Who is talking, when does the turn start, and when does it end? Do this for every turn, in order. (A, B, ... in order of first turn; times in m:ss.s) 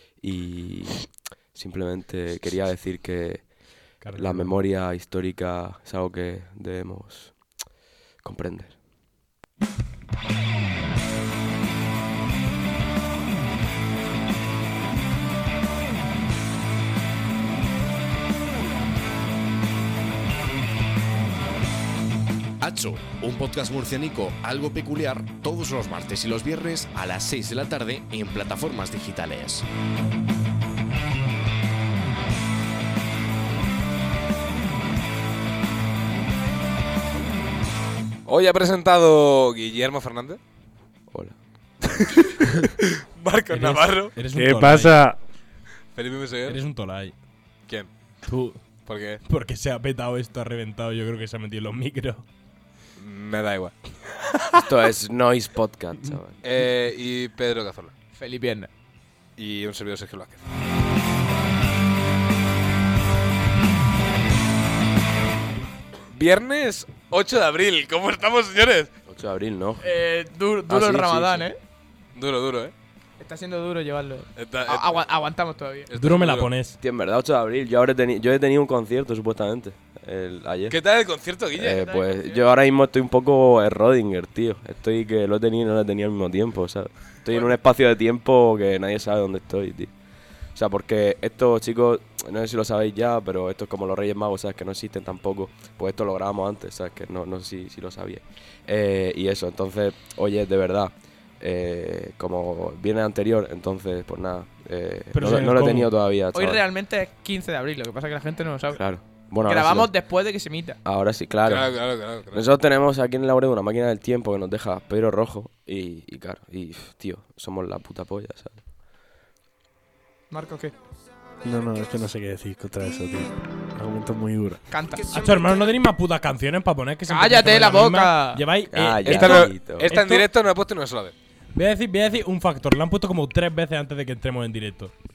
0:00.2-0:03.5 A
0:04.0-0:04.5 B
0:04.1-0:07.4 A
0:08.2-0:08.8 A
0:22.6-0:29.6 C
0:38.2-0:40.4 D
0:41.1-0:41.4 A
0:41.9-0:44.1 D
0:43.5-0:45.1 B
0:44.3-0:45.2 E
0:45.9-0:46.6 D
0:46.4-0:47.1 B
0:48.2-0:48.7 B
0:48.8-0:49.2 D
0:49.2-0:52.2 B
0:53.0-0:53.7 D
0:54.3-0:54.6 B
0:54.6-0:56.4 A
0:56.4-0:57.9 D
0:58.2-0:58.7 F
0:59.4-1:00.4 D
1:06.1-1:08.9 D
1:09.1-1:09.8 A
1:09.8-1:11.6 F
1:10.7-1:11.5 A
1:12.1-1:12.7 D
1:13.2-1:15.9 F
1:14.4-1:15.0 D
1:15.9-1:16.5 D
1:16.0-1:16.8 B
1:16.8-1:20.8 A
1:20.7-1:21.8 D
1:21.5-1:29.9 A
1:21.6-1:22.4 F
1:30.5-1:46.6 A
1:45.1-1:45.9 B
1:46.3-1:50.8 F
1:48.7-1:49.9 A
1:50.8-1:51.8 A
1:51.4-1:52.4 D
1:52.3-1:58.6 A
2:00.3-2:00.7 F
2:01.4-2:04.6 E
2:04.7-2:05.6 F
2:05.1-2:10.3 B
2:07.1-2:08.4 F
2:08.7-2:10.0 A
2:09.0-2:11.1 D
2:11.5-2:14.9 B